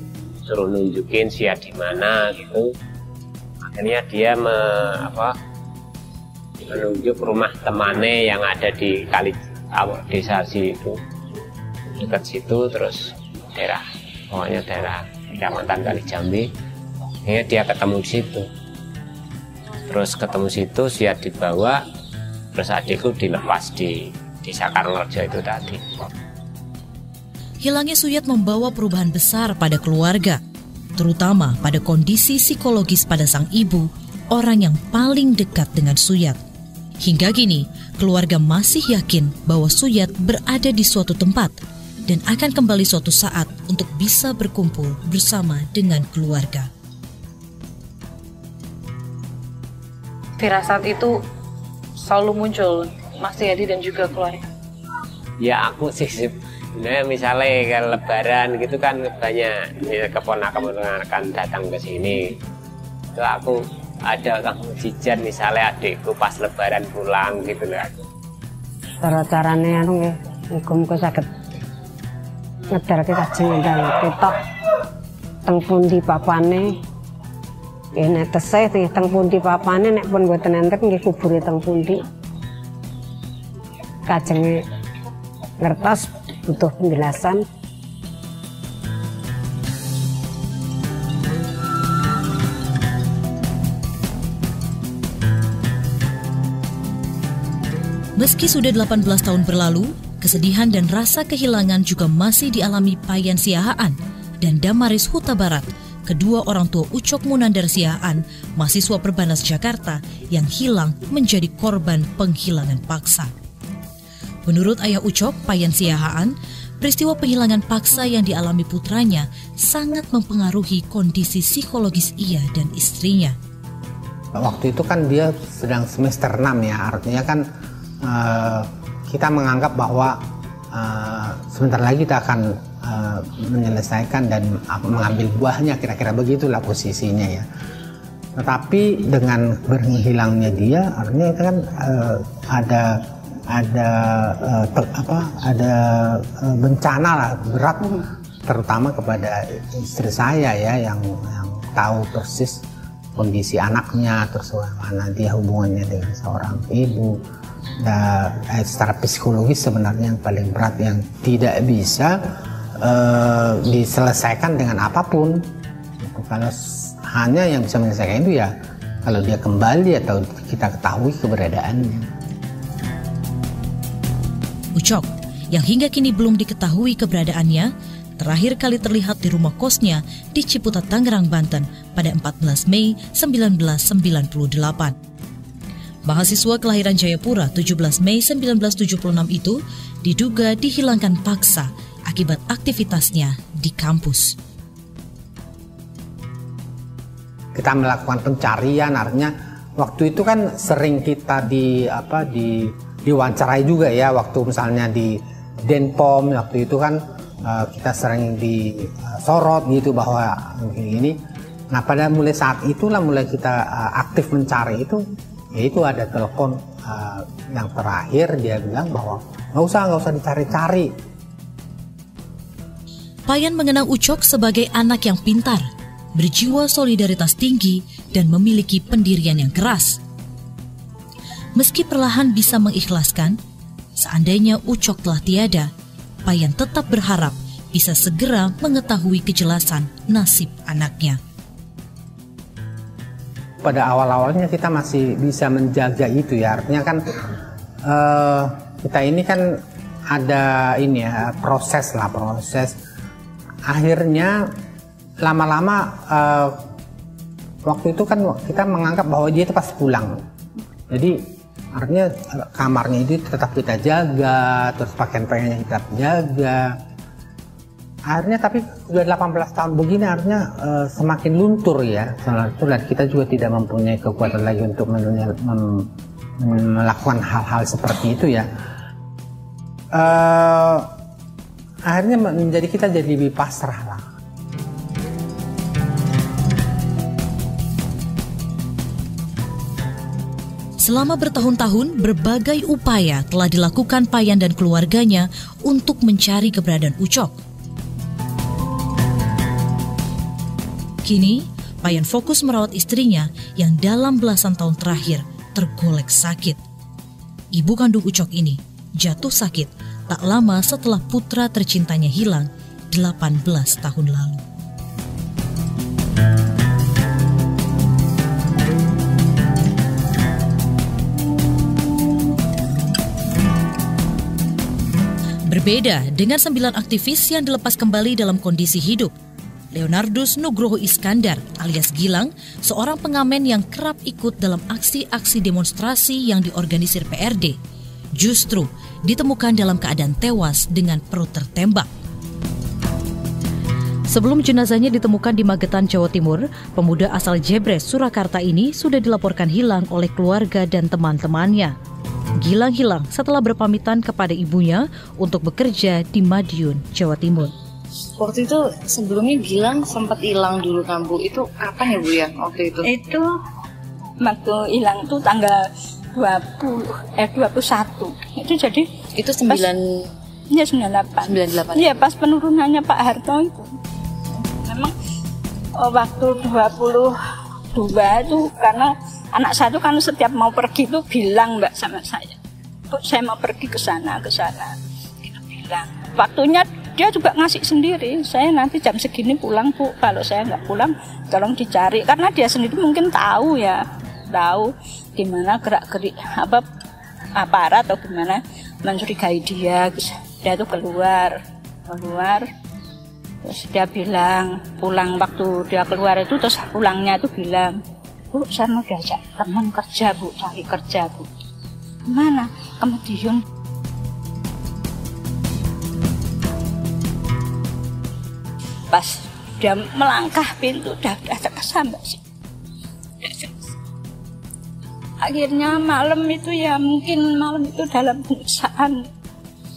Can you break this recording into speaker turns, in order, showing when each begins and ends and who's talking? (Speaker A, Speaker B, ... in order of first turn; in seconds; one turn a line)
Speaker A: 0.5-2.7
Speaker A: 3.6-5.3
Speaker A: 6.7-11.0
Speaker A: 11.9-16.5
Speaker A: 17.2-18.5
Speaker A: 19.9-21.8
Speaker A: 22.5-25.8
Speaker B: 27.6-30.4
Speaker B: 31.0-36.4
Speaker B: 37.0-46.7
Speaker C: 50.4-51.2
Speaker C: 52.0-54.4
Speaker A: 55.4-62.4
Speaker A: 63.1-68.1
Speaker D: 69.0-71.3
Speaker D: 72.7-74.3
Speaker D: 75.5-76.8
Speaker D: 78.0-82.0
Speaker D: 84.1-84.6
Speaker D: 85.6-87.4
Speaker B: 98.2-113.3
Speaker B: 114.4-123.4
Speaker E: 124.4-127.4
Speaker E: 128.0-130.2
Speaker E: 130.7-137.4
Speaker E: 138.3-152.6
Speaker E: 153.2-157.2
Speaker E: 157.8-162.2
Speaker E: 162.8-165.5
Speaker E: 166.0-168.5
Speaker E: 169.0-172.1
Speaker B: 174.8-184.9
Speaker B: 186.0-194.3
Speaker E: 197.6-211.2
Speaker E: 211.7-220.9
Speaker B: 223.3-230.0
Speaker B: 231.6-233.4
Speaker B: 233.9-235.7
Speaker B: 236.2-241.2
Speaker E: 243.6-247.3
Speaker E: 247.8-252.8
Speaker E: 253.7-254.5
Speaker E: 255.2-256.6
Speaker E: 257.6-260.2
Speaker E: 260.9-261.2
Speaker E: 261.7-266.8
Speaker E: 268.1-278.5
Speaker E: 279.9-280.9
Speaker E: 281.9-284.1
Speaker B: 290.8-297.4
Speaker B: 301.0-306.6
Speaker B: 307.5-314.4
Speaker B: 325.5-329.1
Speaker B: 329.7-337.6
Speaker B: 338.1-341.9
Speaker B: 344.1-351.7
Speaker B: 352.4-357.5
Speaker C: 358.2-362.9
Speaker F: 362.8-363.3
Speaker F: 364.2-365.6
Speaker F: 366.1-368.9
Speaker C: 369.1-369.8
Speaker F: 370.5-373.7
Speaker C: 371.2-371.8
Speaker F: 374.5-374.9
Speaker F: 375.8-377.1
Speaker F: 377.7-382.4
Speaker F: 382.9-396.6
Speaker F: 397.4-401.4
Speaker F: 401.9-402.4
Speaker F: 403.4-407.8
Speaker F: 408.3-411.3
Speaker F: 412.1-413.4
Speaker F: 418.9-422.2
Speaker F: 423.2-423.6
Speaker F: 425.2-429.0